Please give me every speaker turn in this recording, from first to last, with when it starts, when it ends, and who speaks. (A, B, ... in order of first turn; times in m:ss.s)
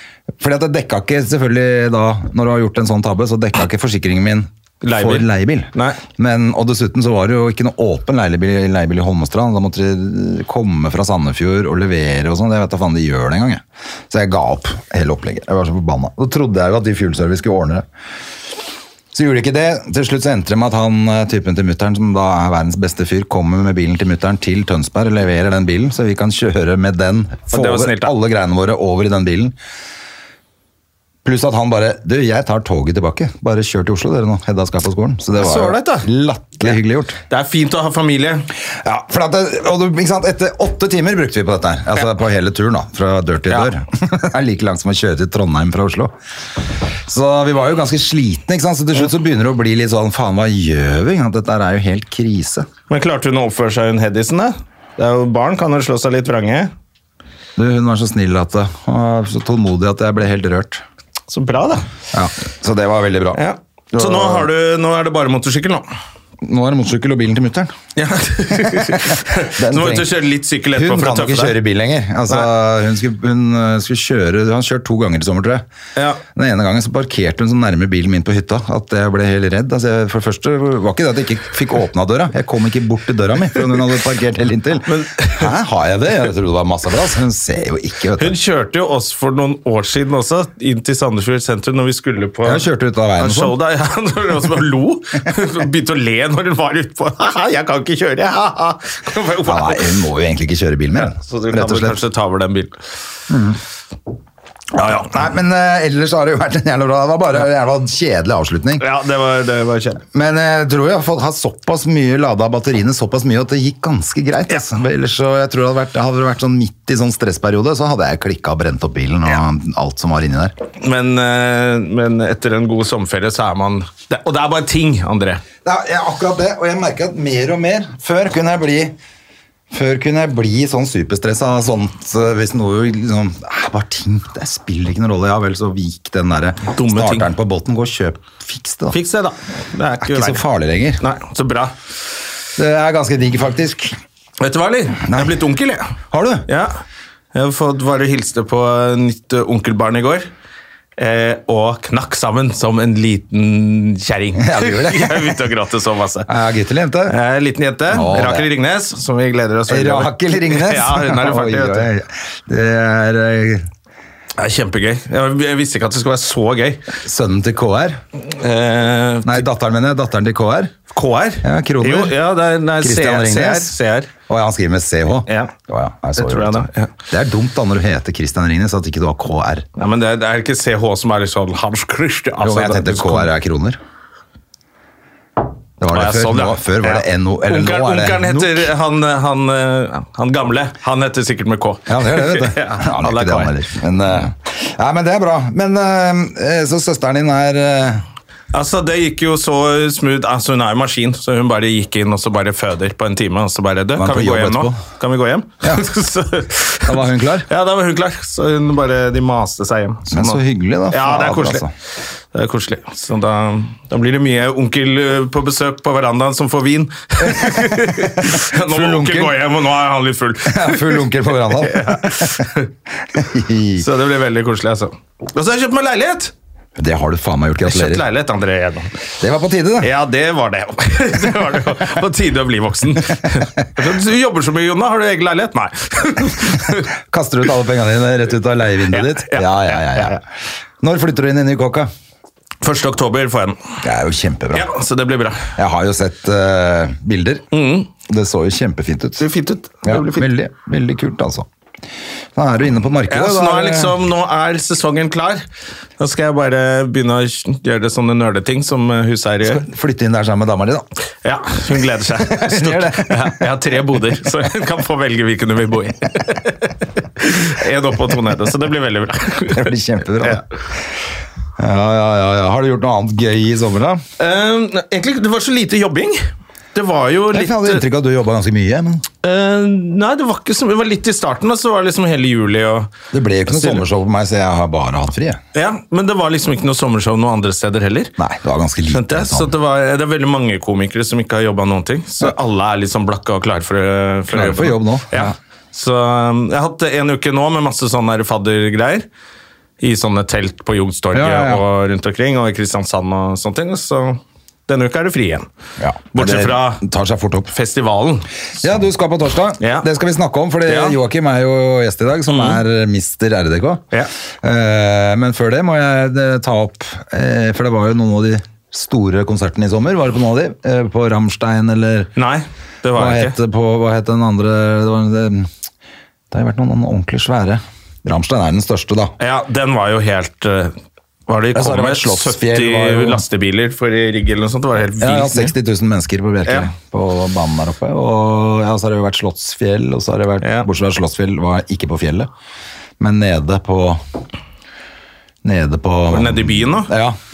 0:00.4-0:17.8 A
0:04.8-0:06.0 B
0:19.1-0:29.6 A
0:27.5-0:28.1 B
0:31.2-0:37.2 A
0:35.4-0:36.1 B
0:37.3-0:38.5 B
0:38.7-0:46.1 A
0:46.8-0:52.7 A
0:52.9-0:56.7 B
0:57.6-1:00.8 A
1:01.3-1:01.8 B
1:02.1-1:03.4 A
1:03.3-1:05.8 B
1:03.9-1:04.5 A
1:06.4-1:07.8 A
1:08.0-1:11.6 B
1:08.5-1:10.1 A
1:10.7-1:15.6 A
1:16.0-1:16.2 B
1:16.3-1:28.4 A
1:24.9-1:25.5 B
1:28.2-1:32.6 B
1:32.4-1:33.6 A
1:33.2-1:39.9 B
1:39.4-1:42.0 A
1:41.0-1:42.8 B
1:43.3-1:43.6 A
1:44.7-1:48.8 A
1:48.8-1:50.0 B
1:50.1-2:00.5 A
2:00.8-2:05.4 B
2:05.6-2:09.0 A
2:09.7-2:19.0 A
2:16.7-2:17.3 B
2:18.9-2:20.4 B
2:20.0-2:21.0 A
2:21.0-2:21.7 B
2:22.6-2:24.0 A
2:24.4-2:25.9 B
2:25.0-2:25.4 A
2:26.1-2:26.5 A
2:26.5-2:26.8 B
2:27.3-2:30.3 B
2:31.0-2:36.3 B
2:34.4-2:35.4 A
2:36.3-2:37.2 A
2:37.1-2:41.9 B
2:37.9-2:38.5 A
2:39.7-2:43.7 A
2:44.4-2:46.8 B
2:47.0-2:48.0 A
2:48.2-2:49.4 B
2:49.2-2:50.7 A
2:50.9-2:54.1 B
2:51.4-2:52.2 A
2:52.8-2:53.7 A
2:54.3-2:59.6 A
2:55.3-2:55.5 B
2:56.2-2:56.9 B
2:59.8-3:03.3 B
3:02.4-3:03.8 A
3:05.8-3:08.7 A
3:05.9-3:13.5 B
3:11.9-3:18.0 A
3:18.5-3:31.7 B
3:24.0-3:24.8 A
3:25.6-3:25.9 A
3:26.8-3:27.5 A
3:30.1-3:31.7 A
3:32.3-3:42.7 B
3:37.2-3:39.4 A
3:40.4-3:42.5 A
3:43.1-3:43.8 A
3:43.8-3:46.3 B
3:46.8-3:48.0 A
3:47.6-3:48.9 B
3:49.2-3:49.9 A
3:49.8-3:56.9 B
3:57.1-4:00.2 A
3:58.9-4:00.2 B
4:00.8-4:01.9 A
4:02.6-4:03.6 B
4:03.8-4:04.7 A
4:04.5-4:05.5 B
4:05.6-4:07.4 A
4:07.5-4:07.9 B
4:08.1-4:09.3 A
4:09.2-4:10.3 B
4:09.8-4:11.5 A
4:12.3-4:14.0 A
4:13.1-4:15.4 B
4:16.0-4:19.6 B
4:19.4-4:20.8 A
4:21.2-4:30.4 B
4:22.2-4:23.4 A
4:29.5-4:30.4 A
4:31.6-4:34.0 A
4:34.2-4:36.2 B
4:36.7-4:37.8 B
4:37.3-4:39.0 A
4:39.2-4:42.9 B
4:43.1-4:45.4 A
4:43.5-4:43.8 B
4:45.5-4:48.1 B
4:48.2-4:49.5 A
4:48.9-4:59.0 B
4:54.3-4:55.3 A
4:59.8-5:05.5 B
5:01.1-5:01.6 A
5:05.8-5:07.5 A
5:06.1-5:06.8 B
5:07.5-5:08.3 B
5:08.6-5:13.8 A
5:09.6-5:09.9 B
5:10.6-5:11.0 B
5:12.3-5:12.6 B
5:14.4-5:22.1 A
5:22.2-5:23.3 B
5:22.9-5:25.5 A
5:26.3-5:29.1 A
5:29.2-5:30.7 B
5:31.3-5:35.5 B
5:31.5-5:33.2 A
5:35.0-5:42.3 A
5:40.4-5:40.7 B
5:43.0-5:44.0 A
5:45.4-5:47.2 A
5:46.1-5:46.9 B